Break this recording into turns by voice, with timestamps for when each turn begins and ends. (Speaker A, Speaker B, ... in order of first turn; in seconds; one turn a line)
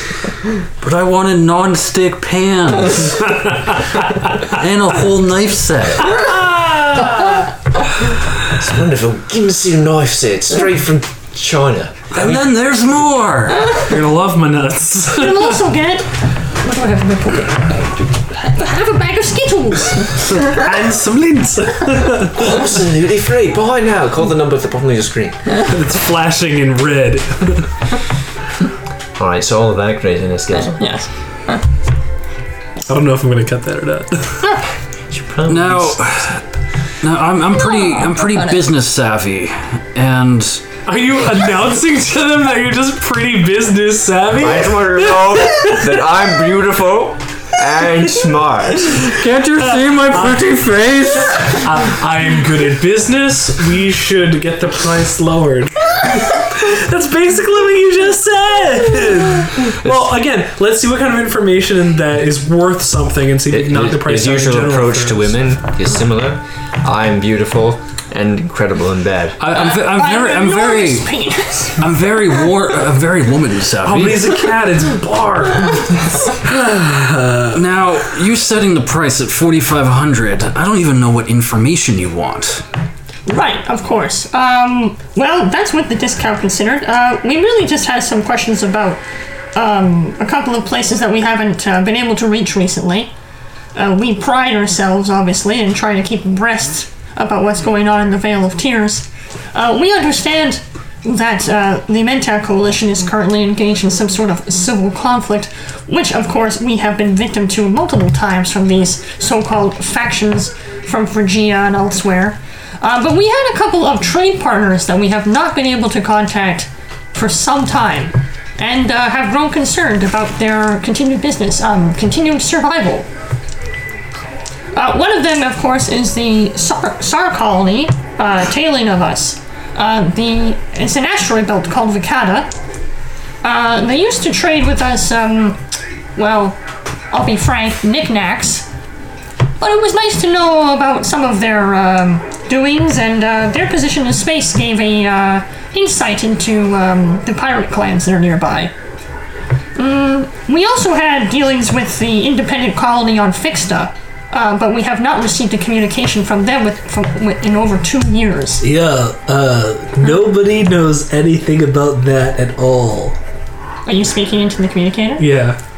Speaker A: 0.8-6.2
Speaker B: 6.1-7.5
Speaker C: 8.4-12.5
Speaker A: 12.1-13.8
Speaker D: 13.8-15.7
Speaker B: 15.1-20.4
Speaker D: 20.5-22.5
Speaker C: 22.4-25.4
Speaker D: 25.6-27.7
Speaker C: 29.2-30.9
Speaker B: 30.8-31.6
Speaker D: 32.9-34.4
Speaker C: 35.1-36.4
Speaker A: 35.5-36.4
Speaker A: 37.0-40.6
Speaker B: 37.8-38.5
Speaker D: 40.9-45.9
Speaker C: 44.4-49.1
Speaker A: 49.0-51.6
Speaker D: 50.1-50.4
Speaker D: 51.3-65.3
Speaker C: 63.5-69.4
Speaker A: 69.4-74.3
Speaker B: 69.5-71.8
Speaker D: 73.8-76.4
Speaker E: 76.8-77.6
Speaker A: 77.5-82.6
Speaker B: 83.3-89.0
Speaker B: 89.5-93.1
Speaker B: 93.8-123.1
Speaker B: 124.8-132.6
Speaker B: 133.4-135.6
Speaker B: 136.2-136.6
Speaker B: 137.1-138.7
Speaker B: 139.6-148.7
Speaker B: 149.8-158.6
Speaker E: 158.6-163.2
Speaker B: 163.9-165.3
Speaker E: 165.2-165.6